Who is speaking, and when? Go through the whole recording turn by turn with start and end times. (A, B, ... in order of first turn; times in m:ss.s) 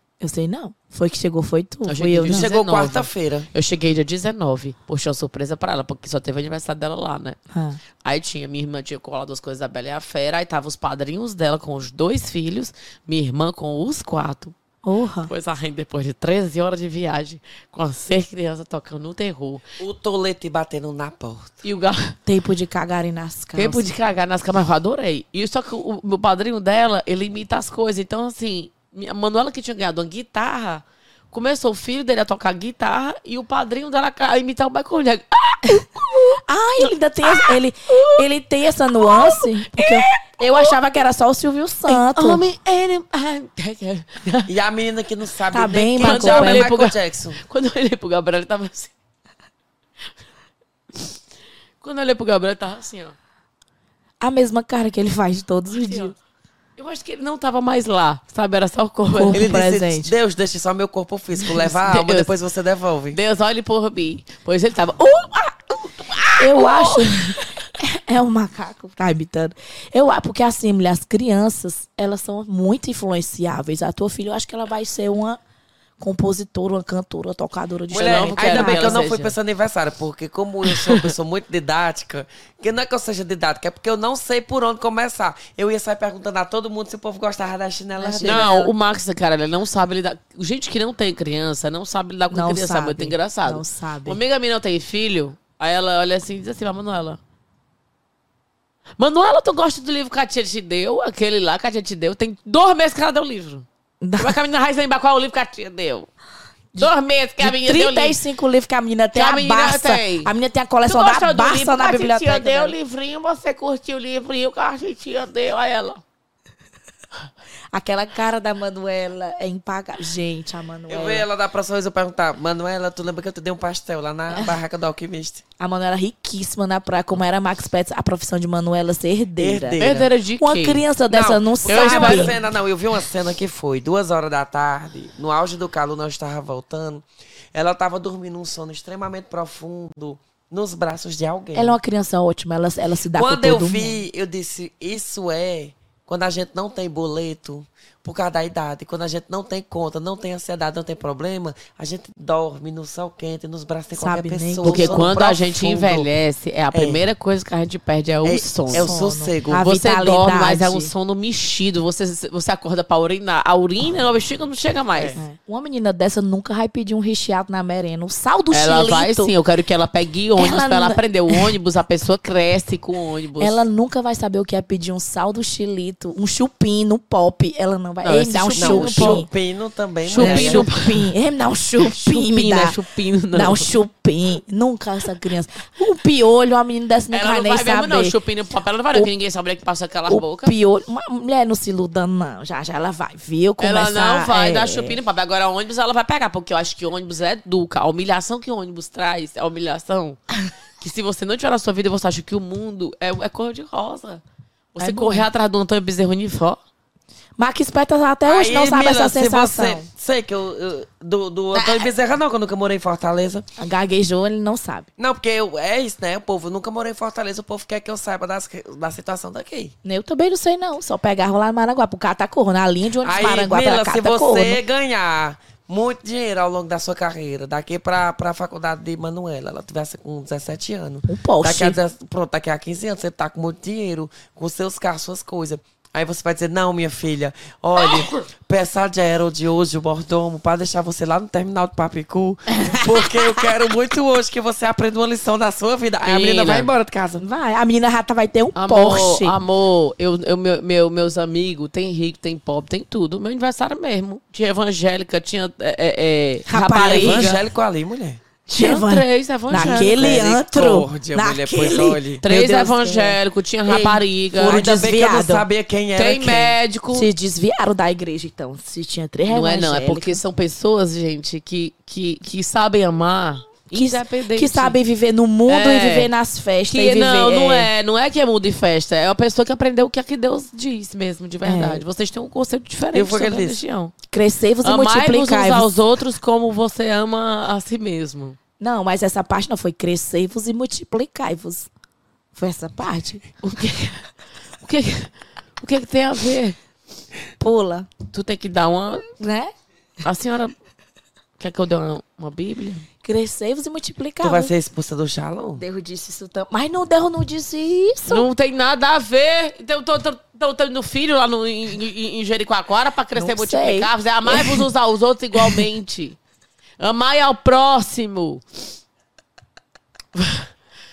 0:00.2-0:02.5 A
0:01.9-0:07.4 B
0:02.2-0:03.5 C
0:07.5-0:07.8 A
0:08.0-0:14.5 B
0:14.8-0:15.3 A
0:15.3-0:19.6 B
0:19.8-0:21.5 C
0:21.6-0:22.2 B
0:22.2-0:23.9 A
0:23.6-0:38.3 B
0:35.7-0:42.4 A
0:39.0-0:40.8 B
0:41.9-0:44.5 B
0:44.5-0:47.4 C
0:45.5-0:46.7 A
0:46.0-0:48.9 B
0:51.8-0:53.1 B
0:54.2-0:56.1 A
0:55.9-0:56.1 B
0:56.8-0:59.4 B
0:59.1-1:00.1 A
0:59.3-1:03.2 C
1:01.4-1:02.3 B
1:03.1-1:07.5 B
1:06.4-1:15.4 A
1:16.0-1:19.0 A
1:17.9-1:28.4 C
1:17.9-1:19.3 B
1:20.7-1:21.1 B
1:28.0-1:28.7 A
1:28.2-1:37.2 B
1:32.3-1:34.2 A
1:39.0-1:43.6 B
1:44.0-1:44.4 A
1:44.2-1:46.1 B
1:46.7-1:52.7 A
1:46.8-1:48.2 B
1:49.1-1:50.3 B
1:50.8-1:56.0 B
1:57.7-2:01.2 A
2:00.9-2:05.4 C
2:05.6-2:09.8 A
2:09.4-2:10.0 C
2:09.8-2:10.8 B
2:10.4-2:12.4 A
2:11.1-2:21.8 C
2:11.6-2:12.3 B
2:21.5-2:24.0 A
2:23.1-2:36.1 C
2:33.9-2:35.1 A
2:34.6-2:38.9 B
2:36.7-2:37.0 C
2:38.2-2:39.7 C
2:38.7-2:40.9 A
2:39.6-2:45.2 B
2:45.0-2:45.2 C
2:45.2-2:49.3 A
2:48.5-2:53.6 B
2:50.4-2:51.5 A
2:53.4-2:59.3 A
2:58.0-2:59.2 B
2:58.6-3:00.7 C
3:00.1-3:01.1 B
3:00.1-3:02.8 A
3:01.8-3:03.7 B
3:03.3-3:08.1 A
3:07.1-3:10.5 B
3:10.1-3:14.9 A
3:13.6-3:20.2 B
3:20.8-3:24.2 B
3:24.7-3:26.6 B
3:24.8-3:25.3 A
3:27.4-3:29.8 A
3:28.2-3:33.4 C
3:31.5-3:31.9 A
3:33.6-3:34.9 A
3:35.0-3:39.7 C
3:39.8-3:44.6 A
3:43.0-4:07.2 C
3:51.1-3:51.8 A
4:02.6-4:03.2 A
4:06.0-4:06.7 B
4:07.2-4:09.4 A
4:08.6-4:17.4 B
4:16.5-4:17.3 A
4:16.8-4:18.2 C
4:18.5-4:23.2 A
4:18.5-4:20.2 B
4:19.5-4:22.2 C
4:22.2-4:24.8 B
4:23.7-4:26.6 C
4:24.4-4:25.4 A
4:26.0-4:27.1 B
4:26.9-4:30.2 A
4:29.3-4:34.8 B
4:33.7-4:37.7 A
4:35.5-4:36.1 B
4:36.7-4:43.9 B
4:41.4-4:41.8 A
4:42.9-4:43.6 C
4:44.1-4:45.7 A
4:44.6-4:48.4 B
4:48.6-4:51.7 A
4:52.3-4:53.2 A
4:53.4-4:54.1 B
4:54.6-4:56.6 B
4:57.4-4:57.9 A
4:58.1-4:59.1 B
4:59.2-4:59.5 A
5:00.0-5:00.5 B
5:01.4-5:02.9 B
5:03.0-5:04.5 A
5:04.2-5:05.6 C
5:05.6-5:08.3 A
5:08.1-5:16.2 B
5:13.1-5:14.7 A
5:15.3-5:15.6 A
5:16.8-5:18.4 B
5:20.1-5:20.5 B